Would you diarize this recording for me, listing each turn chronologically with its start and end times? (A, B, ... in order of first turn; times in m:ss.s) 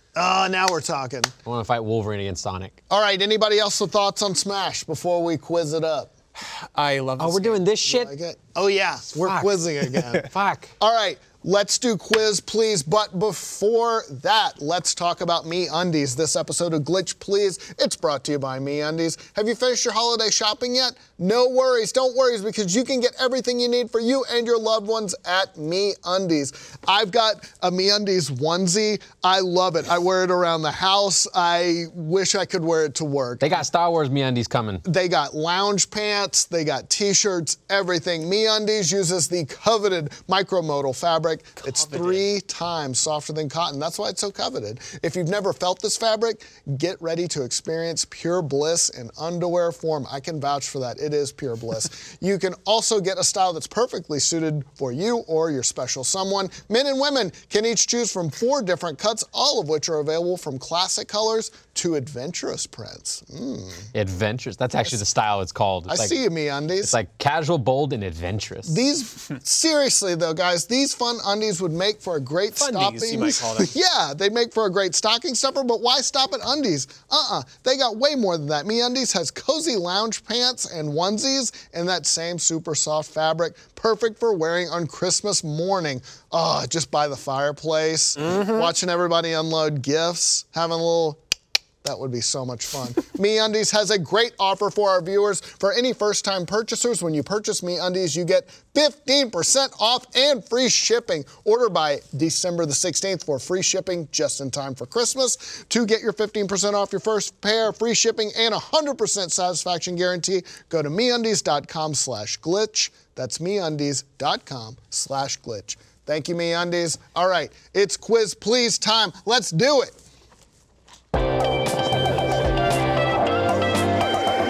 0:00.1-0:01.3 A
0:01.4-0:02.8 B
0:02.9-0:06.1 A
0:06.4-0:07.6 C
0:07.2-0:08.1 B
0:07.8-0:10.3 A
0:09.1-0:09.6 B
0:10.2-0:10.7 B
0:10.8-0:33.6 A
0:33.4-0:34.8 B
0:34.8-1:03.9 A
0:41.6-0:42.2 C
1:03.9-1:06.2 B
1:05.9-1:06.9 A
1:06.8-1:08.8 B
1:08.6-1:31.2 A
1:12.6-1:13.7 C
1:28.2-1:28.7 C
1:31.8-2:00.0 A
2:01.8-2:02.5 B